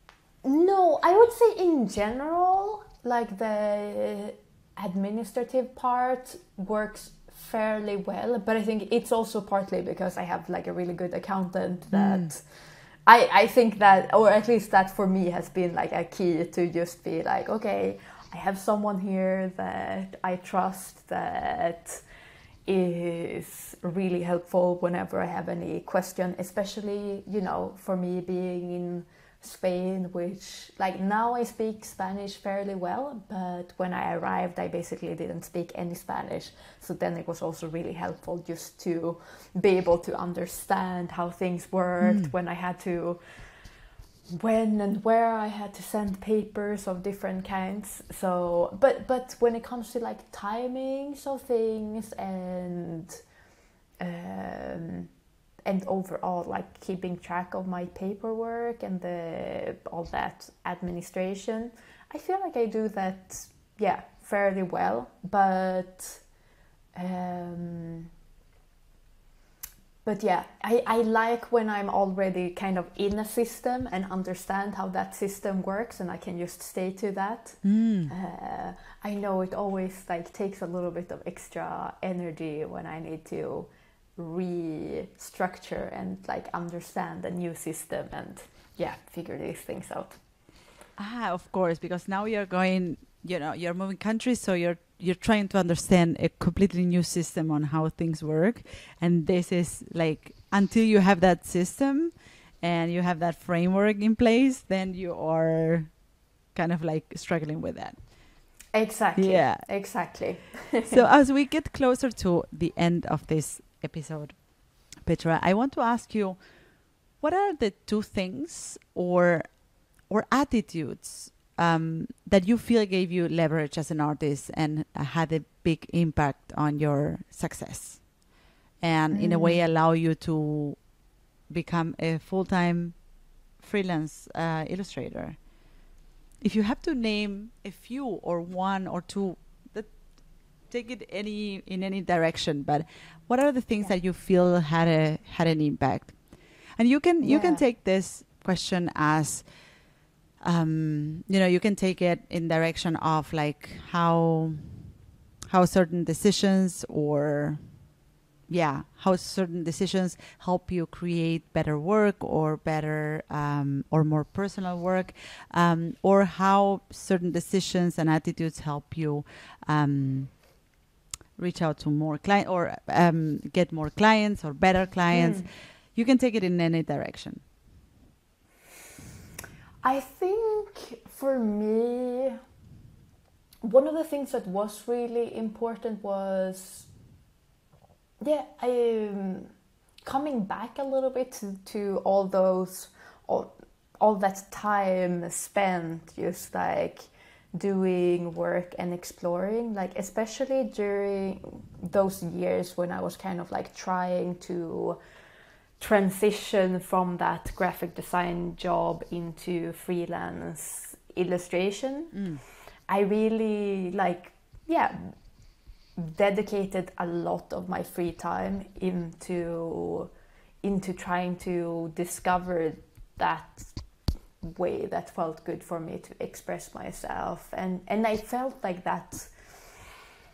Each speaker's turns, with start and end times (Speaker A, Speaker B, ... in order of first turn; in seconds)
Speaker A: 0.4-22.0, 22.6-43.2, 44.3-53.2, 54.0-55.1, 55.6-66.2, 67.0-68.1, 70.0-90.2, 108.7-111.0, 129.1-129.6, 147.2-147.6, 175.1-175.5, 179.8-182.4, 183.6-186.9, 188.2-189.5, 190.0-205.0, 205.8-212.2, 212.9-215.2, 216.0-220.1, 220.6-223.8, 224.4-229.7
Speaker B: 11.9-12.3, 42.0-42.3, 77.6-78.1, 91.0-105.9, 106.5-108.0, 109.2-109.7, 110.9-116.4, 117.2-128.1, 128.8-130.8, 131.5-133.0, 133.6-135.4, 136.4-146.2, 146.8-149.5, 150.4-154.9, 155.5-157.6, 158.5-170.4, 171.4-177.4, 212.1-212.4